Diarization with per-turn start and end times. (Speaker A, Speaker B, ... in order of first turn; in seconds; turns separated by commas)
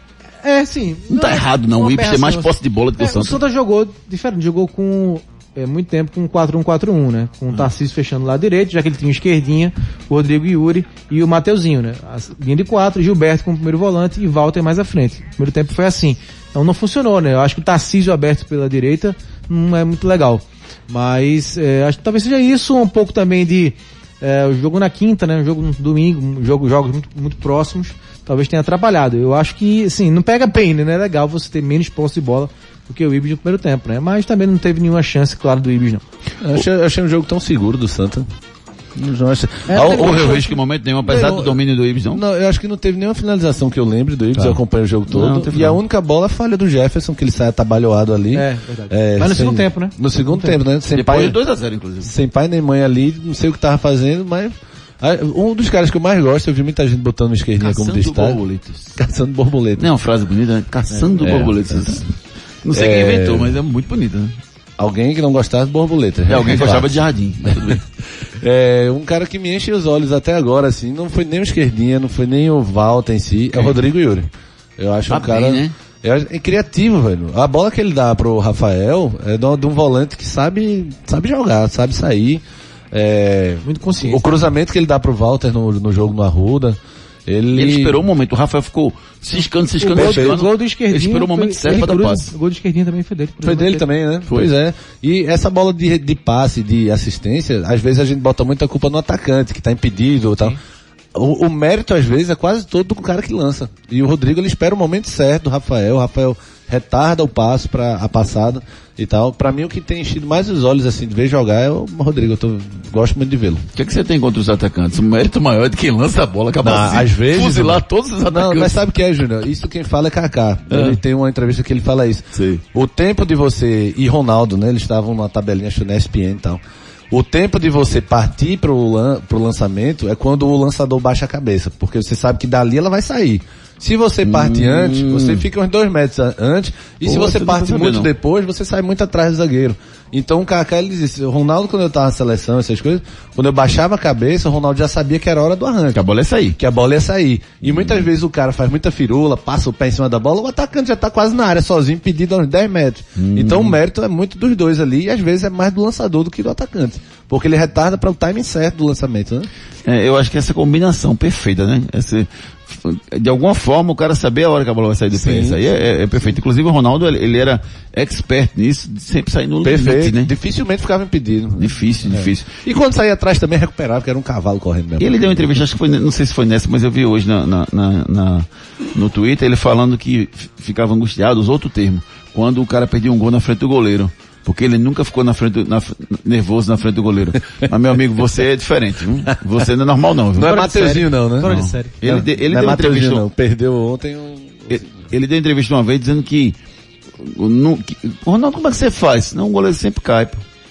Speaker A: 0.4-36.0, Speaker B: 1.1-3.4, Speaker C: 36.4-38.3, Speaker C: 39.0-40.5, Speaker A: 39.7-40.5, Speaker B: 39.7-42.2, Speaker C: 41.0-41.6, Speaker C: 42.1-51.4, Speaker B: 44.4-45.8, Speaker A: 48.3-50.6, Speaker B: 50.9-52.1, Speaker C: 52.0-58.4, Speaker B: 57.6-59.0, Speaker C: 59.0-59.9, Speaker B: 59.8-62.1, Speaker C: 60.9-62.1, Speaker B: 62.6-64.4, Speaker C: 62.7-63.5, Speaker C: 64.8-67.8, Speaker B: 66.3-67.8, Speaker C: 68.4-88.0, Speaker B: 75.1-75.7, Speaker A: 83.6-84.3, Speaker B: 87.5-92.3, Speaker A: 89.8-93.9, Speaker C: 89.9-90.4, Speaker C: 93.4-100.6, Speaker C: 101.1-113.7, Speaker B: 113.8-118.8, Speaker C: 116.6-146.0, Speaker B: 120.7-121.0, Speaker B: 122.3-122.6, Speaker B: 134.2-135.4, Speaker B: 137.1-138.1, Speaker B: 145.9-146.6, Speaker C: 146.6-159.5, Speaker B: 147.6-148.1, Speaker B: 153.2-153.8, Speaker B: 159.8-170.3, Speaker C: 165.1-165.6, Speaker C: 169.6-175.5, Speaker B: 171.6-172.5, Speaker B: 175.0-190.7, Speaker C: 190.3-194.9, Speaker A: 190.4-191.9, Speaker B: 191.4-193.3, Speaker B: 194.7-196.6, Speaker B: 197.2-200.4